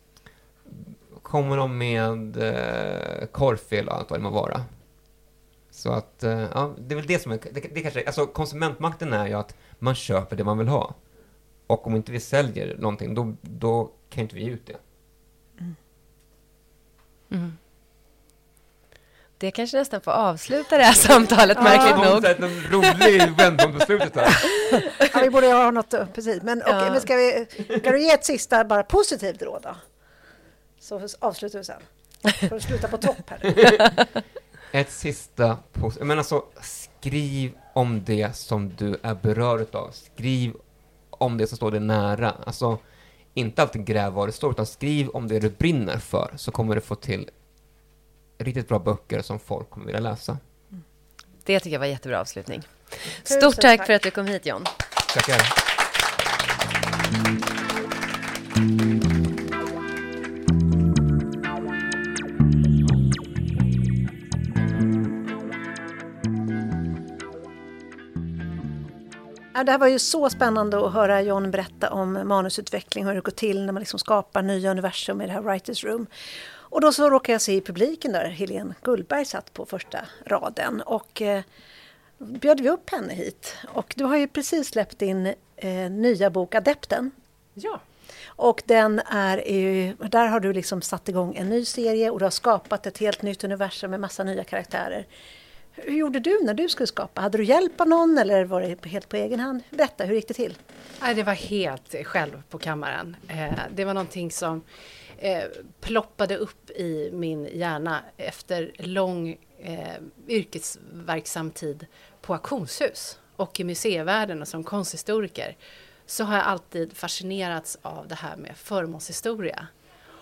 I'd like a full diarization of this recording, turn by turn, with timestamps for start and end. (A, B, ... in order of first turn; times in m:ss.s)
0:00.6-0:04.7 A
0:05.7-0:11.0 A
0:11.7-0:14.8 A
0:17.3-0:17.6 B
0:19.4-0:23.4 B
0:21.6-0:24.5 A
0:21.6-0:22.0 C
0:25.0-0:29.8 C
0:26.6-0:27.0 B
0:30.8-0:33.6 C
0:34.7-0:40.6 A
0:41.1-0:42.8 A
0:43.3-0:47.3 A
0:48.4-0:50.4 A
0:51.4-0:54.7 B
0:53.2-0:53.9 C
0:55.1-0:55.5 A
1:09.5-1:16.1 C
1:16.7-1:21.4 C
1:22.2-1:27.1 C
1:28.4-1:35.1 C
1:35.8-1:40.6 C
1:41.0-1:44.6 D
1:45.2-1:55.6 D
1:56.1-1:59.7 D